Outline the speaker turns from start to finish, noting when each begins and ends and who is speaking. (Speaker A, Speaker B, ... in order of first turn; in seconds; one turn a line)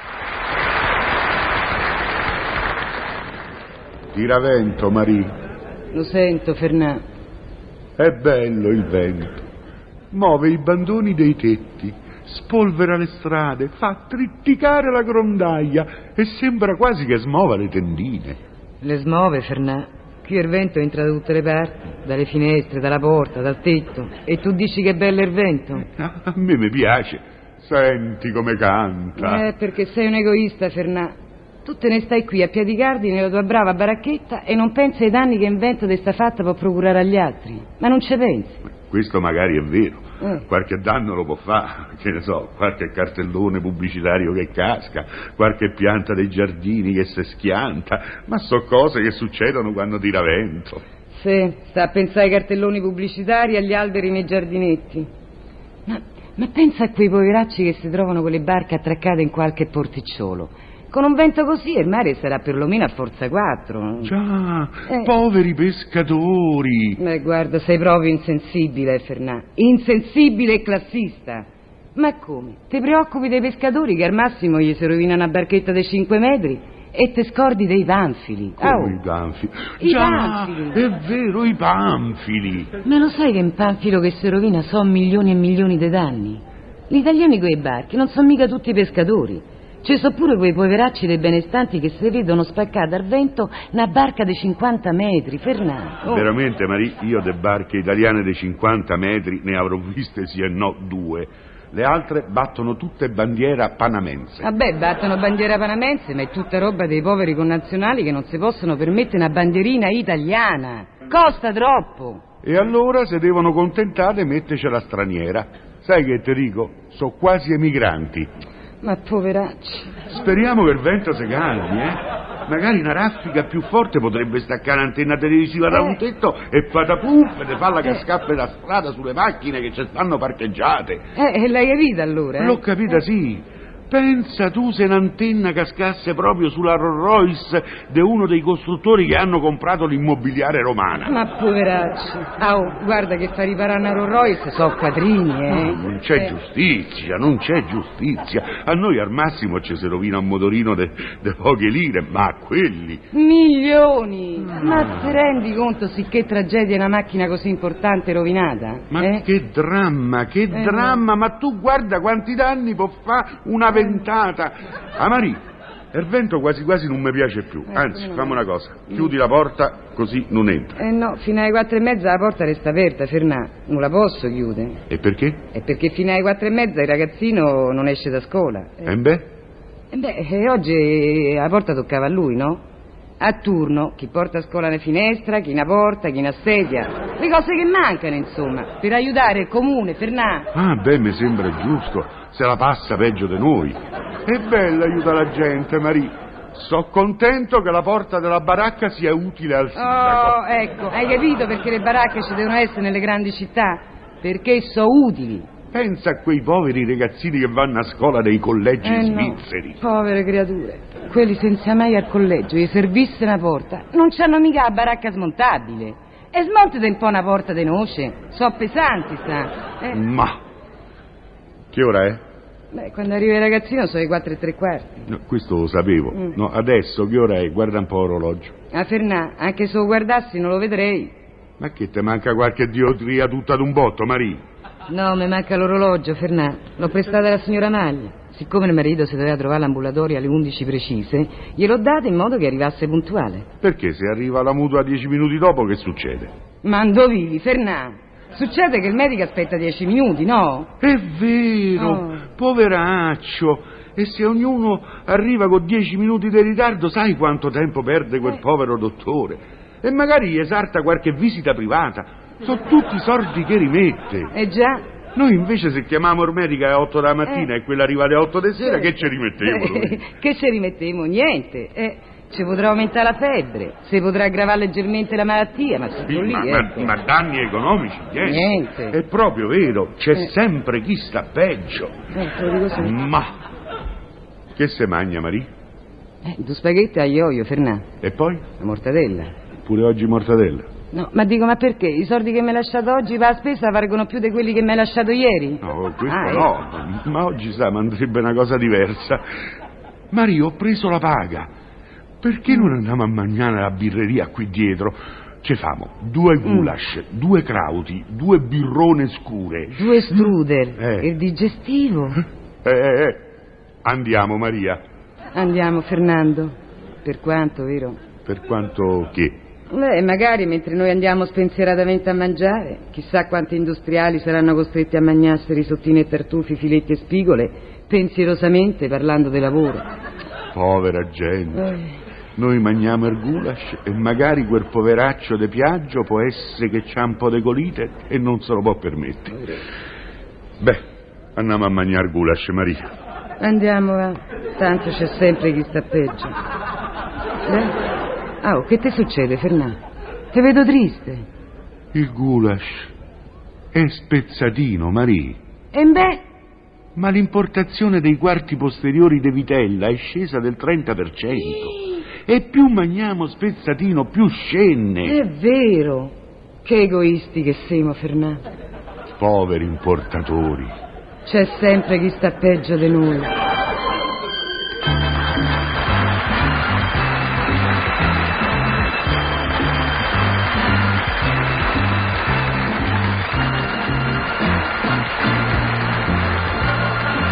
Speaker A: 4.1-5.3
Speaker B: 5.9-7.0
Speaker A: 8.0-9.4
Speaker A: 10.1-18.4
Speaker B: 18.8-25.9
Speaker A: 25.9-29.5
Speaker B: 29.2-38.6
Speaker A: 38.8-50.8
Speaker B: 40.2-40.5
Speaker B: 51.1-55.1
Speaker B: 55.9-64.1
Speaker A: 64.0-67.0
Speaker B: 64.9-65.1
Speaker B: 67.0-79.0
Speaker A: 78.6-82.7
Speaker B: 79.8-80.8
Speaker B: 82.8-96.3
Speaker A: 96.1-104.5
Speaker B: 104.4-112.2
Speaker A: 112.4-118.3
Speaker B: 118.8-120.0
Speaker A: 120.1-131.1
Speaker B: 125.7-126.0
Speaker B: 131.2-132.6
Speaker A: 132.4-141.2
Speaker B: 141.0-146.3
Speaker A: 145.5-153.0
Speaker B: 153.1-159.2
Speaker A: 154.4-155.2
Speaker A: 158.9-165.4
Speaker B: 160.5-161.0
Speaker A: 165.9-170.8
Speaker B: 167.7-168.4
Speaker B: 170.8-174.8
Speaker A: 174.9-175.4
Speaker B: 175.5-178.9
Speaker A: 178.8-179.3
Speaker B: 179.9-182.6
Speaker B: 183.2-190.5
Speaker A: 190.5-200.4
Speaker B: 199.8-205.5
Speaker A: 205.7-209.8
Speaker B: 208.8-220.0
Speaker A: 219.9-220.4
Speaker A: 221.7-222.2
Speaker B: 222.7-225.1
Speaker A: 225.1-228.5
Speaker B: 228.7-231.2
Speaker A: 231.6-234.4
Speaker B: 234.9-243.5
Speaker A: 243.6-246.3
Speaker B: 246.6-250.7
Speaker A: 250.8-264.3
Speaker B: 251.8-252.3
Speaker B: 264.3-264.9
Speaker A: 265.1-270.0
Speaker B: 268.6-277.0
Speaker A: 276.1-281.9
Speaker B: 278.2-279.0
Speaker B: 282.1-283.0
Speaker A: 282.8-283.4
Speaker A: 284.6-285.5
Speaker B: 286.2-287.9
Speaker A: 288.0-288.4
Speaker B: 288.6-289.3
Speaker A: 289.6-290.7
Speaker B: 290.9-296.5
Speaker A: 295.6-299.4
Speaker A: 300.1-301.5
Speaker A: 302.2-310.3
Speaker B: 306.4-306.7
Speaker B: 309.8-312.2
Speaker A: 310.8-311.1
Speaker A: 312.6-313.2
Speaker A: 313.8-314.8
Speaker B: 315.3-318.0
Speaker A: 318.3-319.4
Speaker B: 319.7-329.9
Speaker A: 330.5-331.7
Speaker A: 332.4-339.6
Speaker A: 341.4-342.9
Speaker B: 343.4-346.4
Speaker B: 347.5-347.8
Speaker B: 348.4-349.8
Speaker B: 350.3-351.3
Speaker A: 351.9-352.9
Speaker A: 353.7-355.4
Speaker B: 355.7-356.2
Speaker A: 356.9-365.2
Speaker B: 365.0-368.4
Speaker A: 369.2-370.8
Speaker B: 371.2-373.4